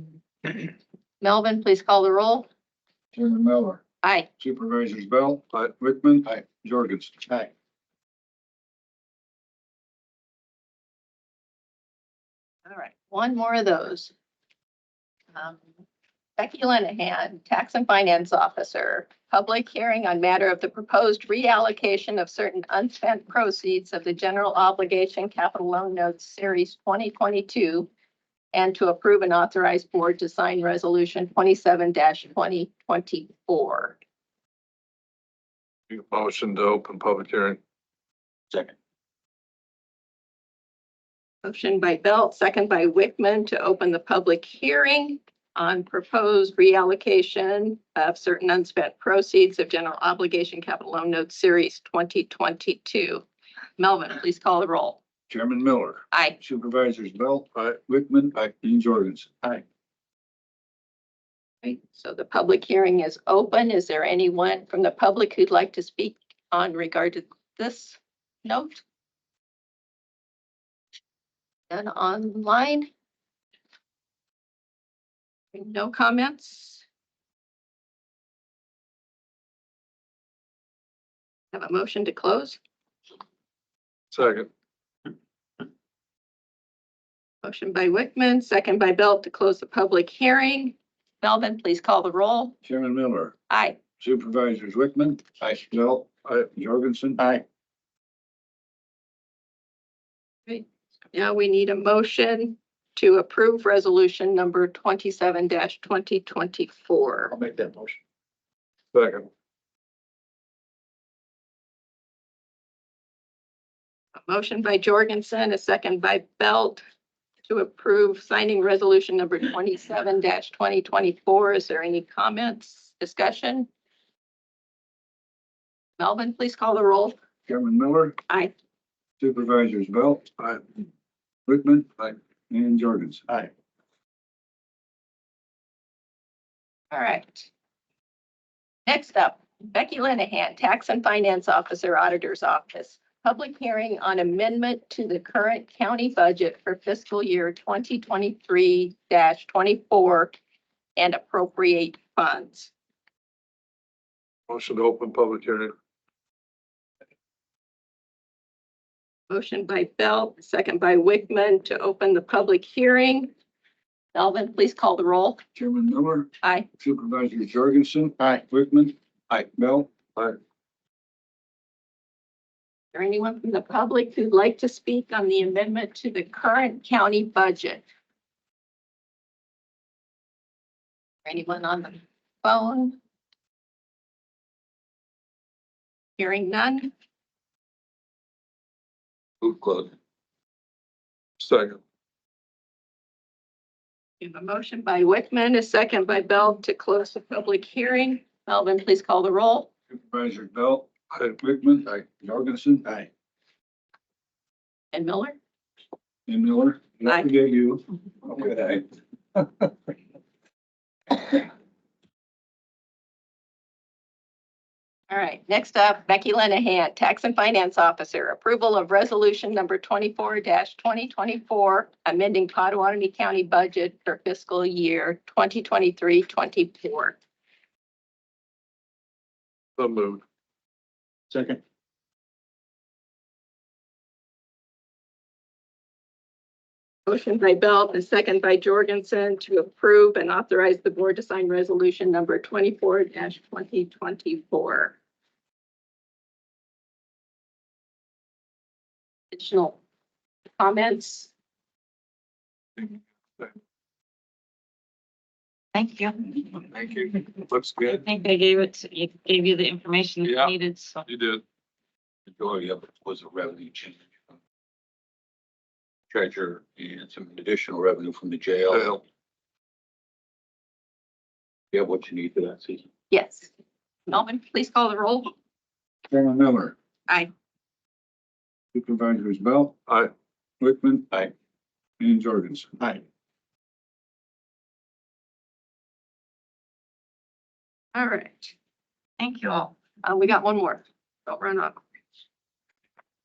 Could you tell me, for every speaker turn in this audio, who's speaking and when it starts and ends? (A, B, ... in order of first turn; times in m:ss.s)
0:01.2-0:02.5 A
0:03.1-0:03.8 B
0:04.0-0:04.3 A
0:04.4-0:07.2 B
0:12.6-0:14.1 A
0:15.3-0:15.6 A
0:16.4-0:27.9 A
0:28.5-0:34.0 A
0:35.9-0:37.6 C
0:41.4-0:53.2 A
0:53.8-0:55.0 A
0:55.3-0:59.3 B
0:56.1-0:56.4 A
1:01.6-1:08.8 A
1:11.7-1:12.9 A
1:15.5-1:16.8 A
1:21.5-1:22.6 A
1:24.1-1:24.5 C
1:27.4-1:32.6 A
1:32.6-1:33.4 B
1:33.5-1:33.8 A
1:34.0-1:37.2 B
1:37.2-1:37.4 D
1:40.5-1:47.3 A
1:47.3-1:48.0 D
1:48.9-1:49.3 C
1:54.2-1:56.8 A
1:57.4-2:03.7 A
2:06.0-2:07.1 A
2:07.5-2:08.2 B
2:09.2-2:10.3 B
2:11.5-2:13.2 B
2:16.9-2:17.5 A
2:18.8-2:30.4 A
2:31.0-2:32.7 A
2:34.5-2:35.7 C
2:39.3-2:43.3 A
2:44.1-2:45.4 A
2:45.5-2:48.9 B
2:46.4-2:46.7 A
2:49.5-2:50.0 B
2:52.9-2:57.8 A
3:01.2-3:03.0 A
3:06.2-3:06.9 A
3:09.4-3:09.9 D
3:11.4-3:11.8 C
3:14.2-3:19.7 A
3:19.9-3:22.9 B
3:24.9-3:25.4 A
3:26.3-3:28.8 B
3:29.4-3:29.7 B
3:35.1-3:47.2 A
3:49.8-3:50.2 C
3:51.3-3:51.6 D
3:57.1-4:05.0 A
4:09.3-4:09.8 A
4:10.6-4:11.3 A
4:12.8-4:13.5 C
4:15.7-4:17.3 E
4:16.8-4:18.0 C
4:17.8-4:21.0 E
4:20.2-4:20.5 C
4:21.0-4:21.4 C
4:22.3-4:24.0 D
4:26.1-4:29.0 D
4:28.7-4:29.0 C
4:31.7-4:32.8 D
4:33.1-4:33.5 A
4:34.1-4:35.3 A
4:36.1-4:36.7 B
4:38.7-4:39.8 B
4:40.6-4:41.2 B
4:42.0-4:42.7 B
4:47.9-4:48.5 A
4:49.2-4:49.7 E
4:50.0-4:51.8 A